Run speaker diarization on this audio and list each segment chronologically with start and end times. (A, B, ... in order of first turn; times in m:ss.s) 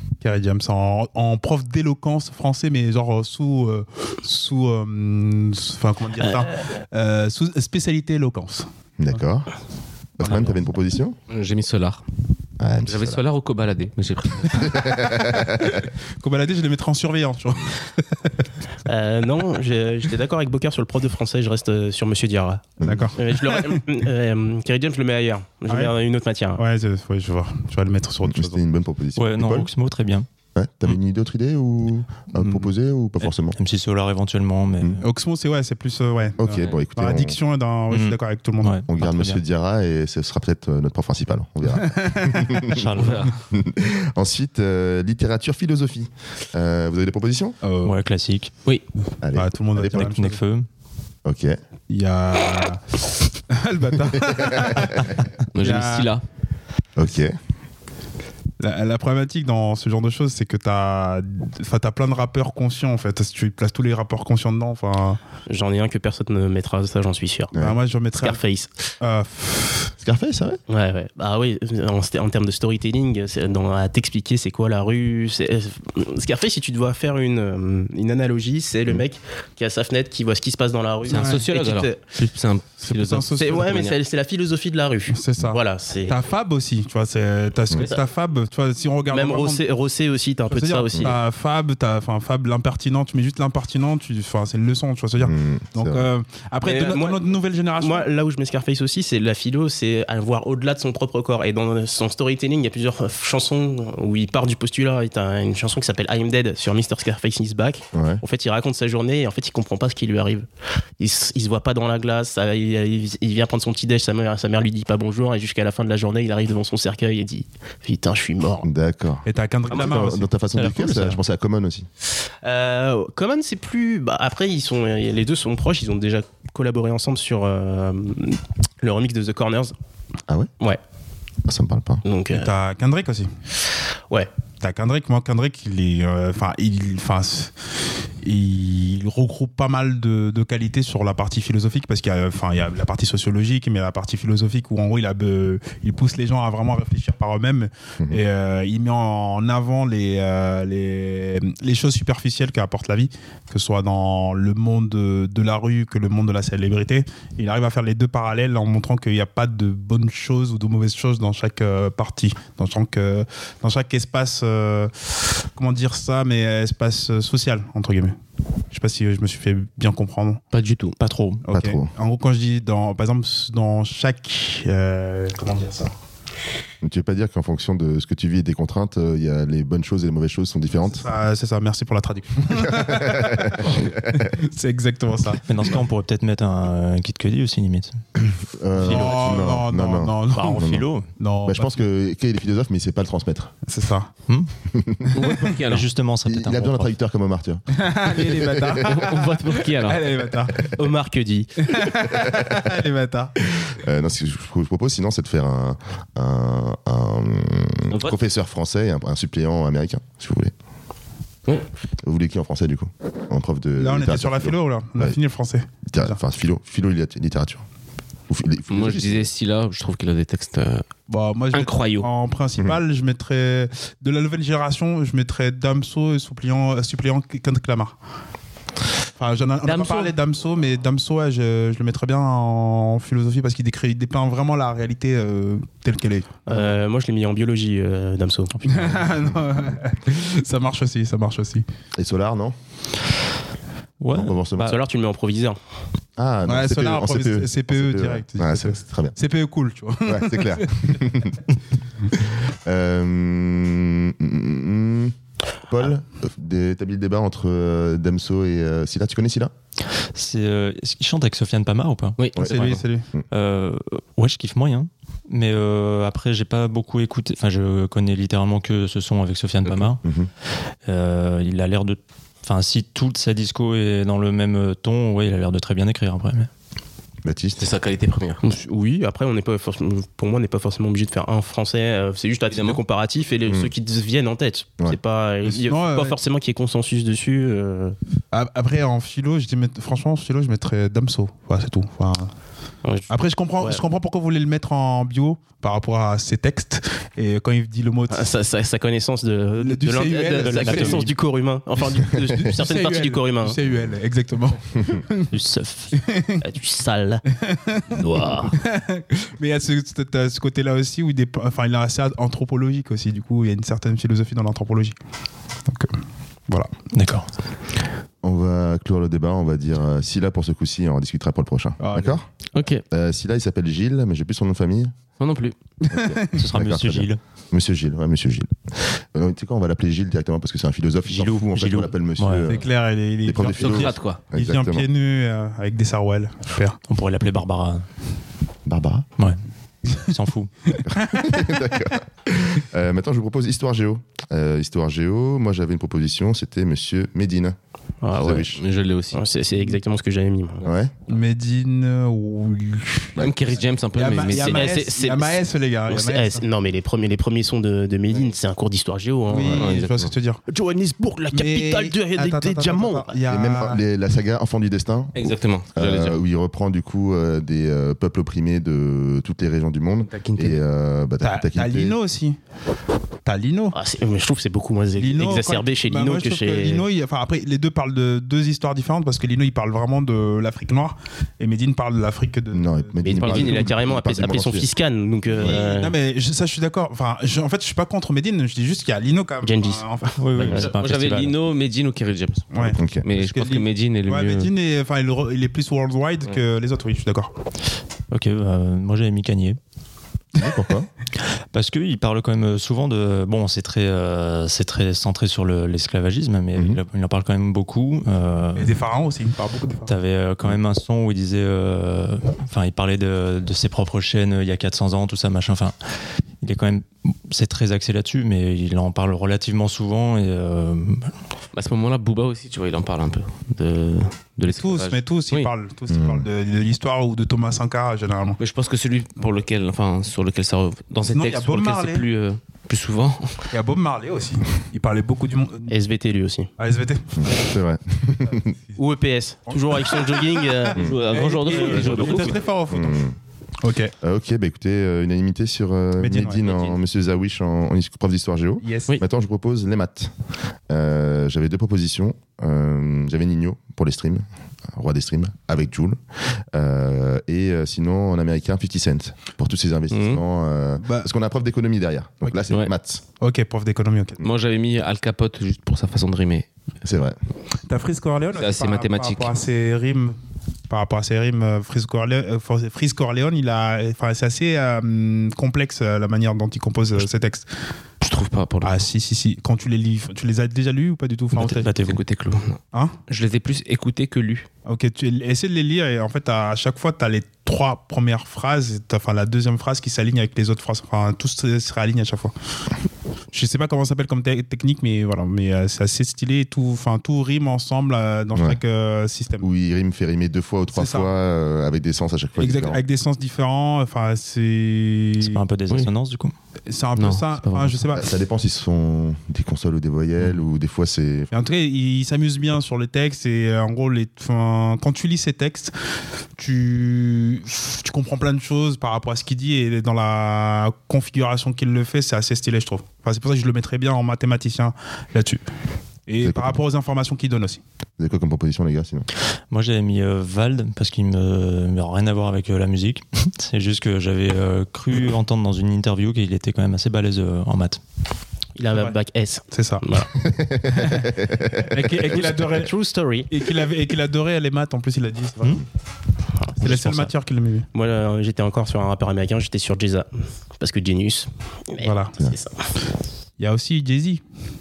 0:00.2-0:08.7 A
0:09.0-0:09.5 B
0:10.2-0:11.2 B
0:11.3-0:12.0 C
0:12.6-0:13.2 B
0:12.8-0:14.9 C
0:14.5-0:15.8 B
0:15.6-0:18.3 A
0:18.8-0:26.6 D
0:22.8-0:23.1 B
0:22.8-0:23.8 A
0:25.7-0:25.9 A
0:26.6-0:28.6 A
0:28.2-0:29.7 B
0:29.2-0:30.3 E
0:30.5-0:33.6 B
0:32.4-0:32.7 E
0:33.5-0:35.0 E
0:35.0-0:38.8 A
0:36.4-0:37.4 B
0:37.9-0:39.4 E
0:38.9-0:47.6 B
0:41.7-0:42.6 A
0:42.7-0:43.3 E
0:43.0-0:43.3 C
0:47.6-0:48.0 A
0:47.8-0:48.5 E
0:49.2-0:50.1 B
0:49.3-0:50.4 A
0:49.9-0:50.6 E
0:51.2-0:51.6 B
0:51.9-0:56.1 A
0:54.2-0:55.0 B
0:55.5-0:56.2 C
0:57.0-0:57.3 B
0:58.6-1:05.2 A
1:05.5-1:07.5 D
1:07.6-1:08.4 A
1:08.2-1:08.7 D
1:09.0-1:09.9 A
1:10.0-1:10.6 B
1:10.7-1:22.0 D
1:21.0-1:24.0 C
1:21.1-1:21.4 A
1:22.8-1:23.8 A
1:23.4-1:26.1 D
1:25.1-1:29.6 A
1:29.1-1:31.2 D
1:30.5-1:38.1 A
1:35.2-1:36.0 B
1:36.6-1:37.2 D
1:37.8-1:50.5 D
1:47.9-1:48.2 B
1:51.0-1:58.7 D
1:58.6-2:01.9 B
1:59.2-2:00.3 A
2:00.6-2:01.2 E
2:02.4-2:09.7 D
2:11.4-2:12.0 B
2:12.0-2:12.5 D
2:12.3-2:13.3 A
2:14.6-2:17.5 A
2:18.2-2:48.2 A
2:48.7-2:50.4 A
2:50.5-2:51.0 C
2:51.0-2:51.4 E
2:51.4-2:55.9 A
2:51.5-2:51.9 B
2:56.8-3:01.0 B
3:00.9-3:05.4 A
3:02.5-3:04.3 B
3:05.4-3:08.0 E
3:08.5-3:10.9 B
3:08.8-3:11.7 A
3:10.3-3:11.1 E
3:11.4-3:13.5 B
3:13.6-3:14.1 A
3:14.7-3:15.3 B
3:15.1-3:15.9 C
3:15.7-3:16.9 E
3:16.2-3:19.0 B
3:17.7-3:20.8 A
3:18.8-3:20.0 C
3:20.7-3:21.8 D
3:21.6-3:23.4 A
3:22.2-3:22.6 B
3:23.7-3:30.5 B
3:27.9-3:28.2 C
3:32.0-3:35.2 B
3:33.8-3:36.2 A
3:35.9-3:37.6 B
3:38.3-3:39.3 B
3:38.7-3:40.8 C
3:41.1-3:47.9 A
3:41.5-3:42.1 C
3:49.2-3:56.4 A
3:49.6-3:50.1 C
3:56.5-3:58.7 D
3:58.6-4:01.6 A
4:02.0-4:02.5 B
4:04.0-4:04.8 E
4:04.1-4:04.8 B
4:04.6-4:05.6 D
4:06.2-4:09.1 B
4:06.4-4:11.1 A
4:10.0-4:11.4 B
4:12.1-4:15.1 B
4:15.6-4:19.5 B
4:20.0-4:22.7 E
4:22.2-4:22.7 C
4:22.4-4:23.2 B
4:22.4-4:23.1 A
4:23.3-4:30.0 E
4:30.0-4:30.3 B
4:30.8-4:36.5 E
4:37.2-4:37.7 B
4:37.6-4:38.4 C
4:38.4-4:48.0 D
4:42.5-4:42.8 C
4:43.4-4:43.7 B
4:45.4-4:46.2 A
4:48.3-4:52.3 A
4:52.8-4:53.8 D
4:53.1-4:58.3 A
4:58.1-5:03.6 D
4:59.6-5:01.1 A
5:00.4-5:01.1 E
5:01.8-5:05.3 A
5:05.3-5:06.0 E
5:05.9-5:06.4 A
5:06.4-5:07.2 D
5:07.3-5:14.9 A
5:08.0-5:08.5 D
5:08.0-5:08.5 C
5:15.7-5:16.0 A
5:16.9-5:17.3 E
5:18.2-5:22.2 B
5:21.8-5:22.2 A
5:22.5-5:22.8 C
5:22.9-5:24.9 B
5:25.2-5:25.6 C
5:25.8-5:26.4 A
5:25.9-5:32.6 B
5:26.3-5:27.2 E
5:31.1-5:32.5 E
5:32.4-5:36.8 A
5:33.2-5:34.9 B
5:33.6-5:34.2 C
5:36.9-5:37.8 E
5:38.6-5:39.1 B
5:39.9-5:40.7 E
5:40.7-5:41.4 A
5:40.8-5:47.6 B
5:48.0-5:48.5 D
5:48.1-5:48.6 B
5:48.3-5:49.2 C
5:49.1-5:50.7 D
5:50.6-5:50.9 B
5:51.1-5:53.3 A
5:53.2-5:54.8 C
5:53.9-5:56.4 A
5:54.3-5:59.7 D
5:59.3-6:00.4 A
5:59.5-6:00.1 C
6:00.5-6:03.1 D
6:01.3-6:03.8 A
6:03.2-6:12.0 B
6:05.1-6:06.2 C
6:10.1-6:10.6 C
6:11.2-6:12.4 A
6:13.2-6:13.7 A
6:13.7-6:16.8 D
6:15.0-6:23.7 A
6:22.5-6:24.7 B
6:23.0-6:25.9 D
6:25.3-6:25.6 B
6:25.4-6:30.6 A
6:29.4-6:29.8 D
6:30.2-6:31.3 E
6:30.5-6:34.5 C
6:32.5-6:37.3 A
6:32.8-6:33.0 B
6:38.1-6:39.6 E
6:40.3-6:40.9 B
6:41.5-6:48.8 E
6:46.5-6:46.8 B
6:48.6-6:49.9 A
6:49.8-6:55.7 E
6:56.4-7:01.1 E
7:01.5-7:05.5 C
7:04.4-7:08.4 A
7:05.9-7:06.2 B
7:08.4-7:13.4 C
7:11.1-7:12.0 A
7:13.5-7:15.7 A
7:15.7-7:16.5 D
7:16.6-7:17.5 A
7:17.2-7:18.6 B
7:18.8-7:20.9 D
7:19.5-7:23.0 A
7:20.7-7:22.4 C
7:21.8-7:23.2 B
7:23.6-7:23.9 A
7:24.0-7:30.1 B
7:26.0-7:26.4 A
7:28.6-7:29.0 A
7:30.7-7:43.0 B
7:39.9-7:40.2 C
7:40.8-7:41.1 A
7:43.2-7:44.2 A
7:44.2-7:46.5 C
7:46.8-7:47.2 B
7:47.7-7:50.2 A
7:48.4-7:49.3 C
7:50.7-7:57.5 A
7:58.0-7:58.8 C
7:58.6-8:01.7 A
8:01.4-8:04.5 C
8:01.4-8:02.0 E
8:04.6-8:12.3 A
8:13.3-8:19.5 A
8:19.4-8:22.8 B
8:20.7-8:21.1 A
8:22.4-8:25.4 A
8:25.2-8:26.3 E
8:26.7-8:28.1 A
8:27.0-8:27.8 C
8:27.9-8:31.3 B
8:31.3-8:35.7 A
8:36.4-8:45.4 A
8:46.1-8:47.6 A
8:46.2-8:46.6 B
8:48.0-8:49.1 B
8:49.5-8:57.8 E
8:58.6-9:00.1 D
8:59.5-8:59.8 A
9:00.2-9:02.0 B
9:00.7-9:02.7 A
9:02.1-9:03.3 D
9:03.3-9:05.6 A
9:06.6-9:07.7 A
9:06.6-9:07.0 E
9:07.7-9:12.5 D
9:11.8-9:12.1 A
9:13.4-9:14.2 A